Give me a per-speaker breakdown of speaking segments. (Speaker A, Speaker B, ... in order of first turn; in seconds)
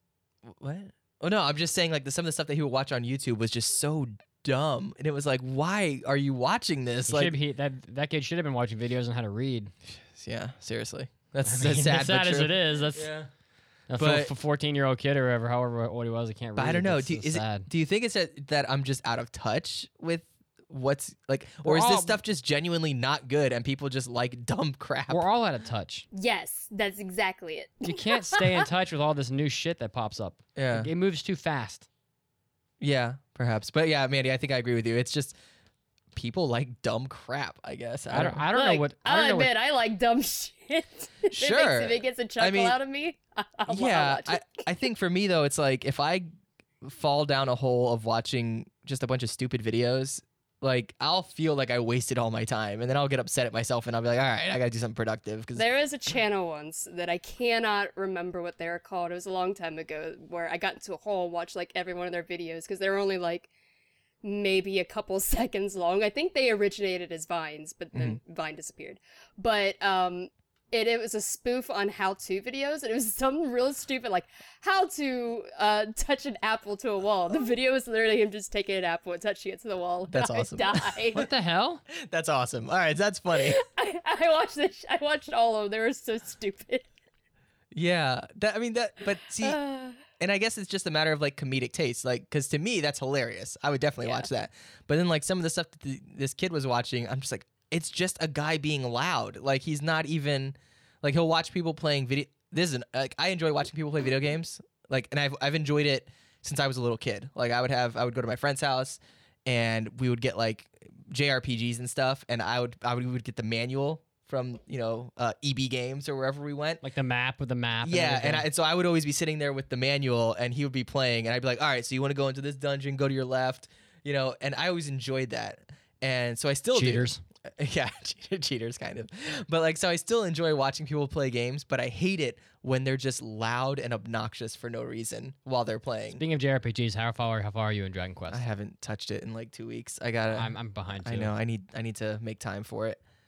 Speaker A: 0.4-7.3, 9.9-13.3, 14.0-14.3, 16.6-25.2, 30.6-30.9, 32.8-35.4, 36.1-38.4, 41.3-42.8, 43.7-46.3, 46.8-55.7, 67.9-68.2, 80.1-81.2, 81.9-83.6, 87.7-89.6, 90.1-116.8, 117.8-136.2, 138.3-143.0
Speaker B: 7.1-9.7, 11.4-13.1, 13.9-17.7, 21.6-22.2, 25.1-26.1, 27.8-31.9, 38.1-39.5, 81.1-81.8, 116.8-118.5, 126.7-127.2, 136.2-138.4, 140.3-141.3
Speaker C: 26.1-28.6, 38.5-44.6, 55.5-63.5, 64.2-81.3, 83.3-86.9, 89.4-90.0, 94.0-94.3